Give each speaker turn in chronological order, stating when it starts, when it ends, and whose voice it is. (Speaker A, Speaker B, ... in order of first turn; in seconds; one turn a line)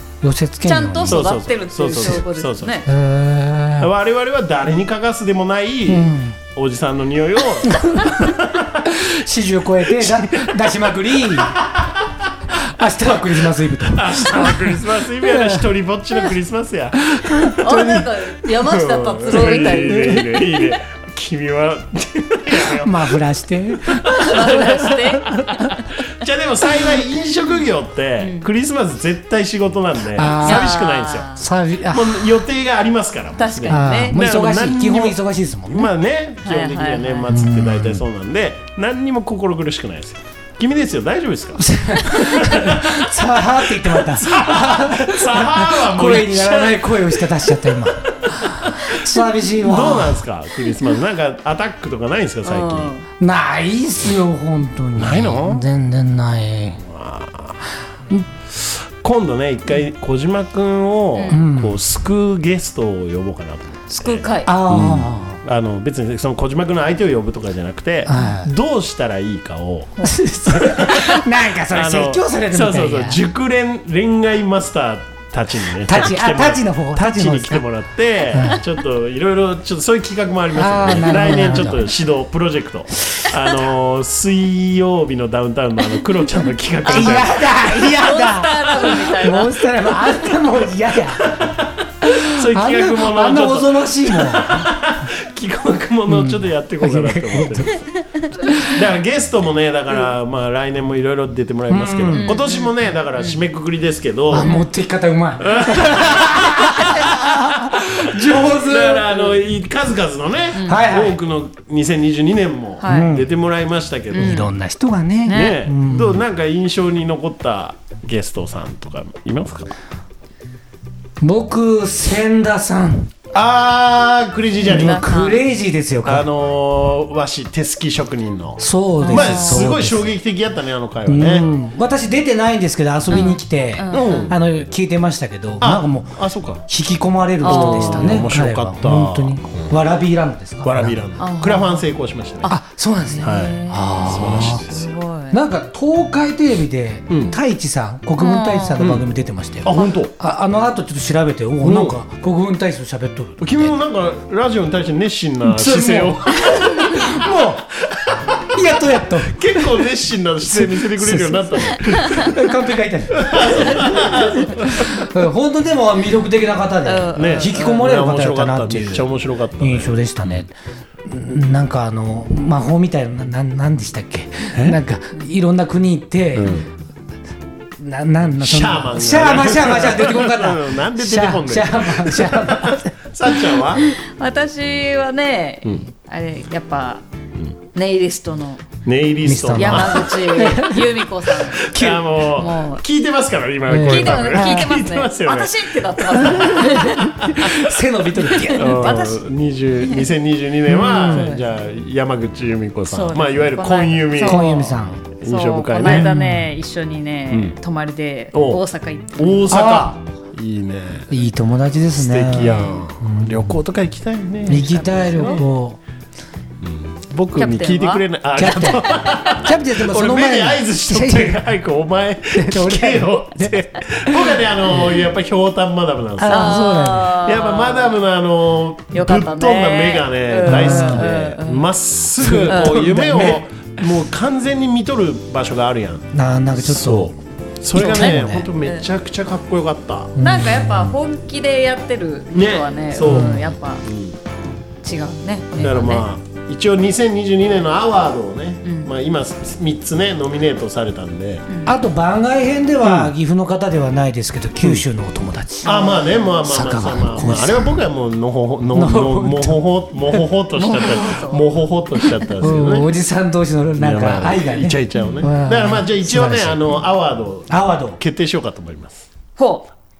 Speaker A: 0.2-1.3
Speaker B: 0.6-2.9
Speaker C: 1.1-2.9
Speaker A: 2.9-3.9
Speaker C: 3.8-8.9
Speaker A: 5.9-6.3
Speaker A: 7.7-11.6
Speaker C: 9.9-10.6
Speaker C: 11.3-11.9
Speaker A: 12.6-15.6
Speaker C: 13.9-23.1
Speaker A: 17.0-18.1
Speaker B: 17.6-20.4
Speaker A: 19.3-20.2
Speaker A: 22.6-25.7
Speaker C: 23.9-25.1
Speaker B: 24.2-25.8
Speaker C: 25.6-31.3
Speaker B: 28.2-28.5
Speaker A: 30.1-30.7
Speaker B: 30.4-31.4
Speaker A: 31.4-32.3
Speaker C: 31.9-35.2
Speaker B: 33.4-34.2
Speaker A: 33.7-35.9
Speaker C: 35.7-47.5
Speaker B: 36.4-37.3
Speaker A: 37.3-38.0
Speaker A: 41.6-50.2
Speaker C: 48.3-49.0
Speaker C: 49.6-52.9
Speaker B: 52.4-53.0
Speaker A: 53.2-56.8
Speaker C: 55.0-55.6
Speaker C: 56.8-57.6
Speaker C: 58.5-70.0
Speaker B: 61.1-61.4
Speaker A: 61.3-61.8
Speaker B: 63.9-64.5
Speaker A: 64.5-65.4
Speaker A: 68.1-68.5
Speaker A: 70.0-73.2
Speaker C: 70.5-88.0
Speaker A: 75.8-77.7
Speaker A: 78.3-78.6
Speaker A: 80.5-81.9
Speaker A: 86.8-91.3
Speaker B: 86.9-89.9
Speaker C: 91.2-91.7
Speaker A: 92.0-94.7
Speaker C: 92.2-97.8
Speaker A: 96.1-97.7
Speaker B: 98.1-98.6
Speaker A: 98.4-98.7
Speaker C: 98.6-104.5
Speaker A: 101.7-102.3
Speaker B: 102.1-103.4
Speaker A: 104.3-109.3
Speaker B: 104.4-104.7
Speaker C: 105.4-114.5
Speaker B: 110.5-110.8
Speaker A: 110.6-111.2
Speaker B: 112.8-113.1
Speaker A: 112.8-113.3
Speaker B: 114.1-114.5
Speaker A: 114.1-116.2
Speaker B: 115.2-115.6
Speaker C: 115.3-119.7
Speaker A: 121.2-123.1
Speaker C: 123.3-125.0
Speaker A: 124.6-126.3
Speaker B: 124.7-125.4
Speaker C: 126.0-131.5
Speaker A: 128.6-130.1
Speaker B: 129.0-129.7
Speaker A: 131.1-140.9
Speaker B: 133.1-134.3
Speaker C: 133.9-134.3
Speaker C: 135.6-136.6
Speaker B: 137.4-138.2
Speaker C: 137.4-139.8
Speaker C: 140.6-142.5
Speaker B: 141.2-141.9
Speaker B: 142.4-145.4
Speaker A: 142.5-144.6
Speaker C: 143.2-144.9
Speaker A: 145.3-153.7
Speaker C: 147.1-147.3
Speaker B: 148.2-148.9
Speaker C: 148.8-149.1
Speaker C: 149.6-150.1
Speaker C: 151.6-152.0
Speaker C: 153.4-157.3
Speaker A: 155.4-157.7
Speaker C: 157.8-162.4
Speaker A: 158.5-159.7
Speaker A: 160.5-170.5
Speaker C: 163.2-165.1
Speaker B: 166.8-167.8
Speaker C: 167.1-170.4
Speaker A: 171.0-176.6
Speaker C: 176.3-176.7
Speaker A: 177.8-182.9
Speaker C: 178.4-183.9
Speaker B: 183.8-187.0
Speaker B: 187.7-188.7
Speaker C: 188.8-190.3
Speaker A: 189.2-192.1
Speaker B: 189.6-192.8
Speaker C: 191.5-197.8
Speaker A: 193.7-194.7
Speaker B: 193.8-197.2
Speaker A: 196.2-199.0
Speaker B: 198.3-199.2
Speaker C: 198.5-206.1
Speaker B: 199.8-200.1
Speaker A: 200.7-201.3
Speaker B: 200.7-201.4
Speaker B: 202.9-204.6
Speaker A: 204.2-205.1
Speaker B: 205.2-209.6
Speaker A: 205.8-206.5
Speaker C: 207.3-207.6
Speaker C: 208.3-211.1
Speaker A: 209.5-209.9
Speaker A: 211.1-213.4
Speaker C: 211.9-215.4
Speaker B: 212.4-212.8
Speaker A: 214.5-215.8
Speaker B: 214.6-215.4
Speaker C: 216.6-240.1
Speaker B: 217.3-219.2
Speaker A: 218.4-221.4
Speaker A: 222.3-225.0
Speaker A: 226.2-227.1
Speaker B: 226.2-228.0
Speaker B: 228.9-231.7
Speaker A: 230.4-231.1
Speaker A: 232.2-233.4
Speaker B: 232.5-233.3
Speaker A: 236.1-237.1
Speaker A: 237.7-238.5
Speaker B: 237.8-238.9
Speaker A: 240.2-240.9
Speaker B: 240.2-243.8
Speaker C: 242.3-244.2
Speaker A: 243.0-243.5
Speaker B: 244.5-246.1
Speaker C: 245.6-251.5
Speaker B: 248.6-248.9
Speaker A: 251.6-255.8
Speaker C: 252.8-253.1
Speaker B: 255.6-256.3
Speaker C: 255.6-262.9
Speaker A: 256.4-257.7
Speaker A: 258.7-259.6
Speaker B: 260.5-261.5
Speaker A: 262.4-266.8
Speaker C: 263.8-269.1
Speaker B: 265.0-265.2
Speaker A: 267.5-268.0
Speaker B: 269.4-269.7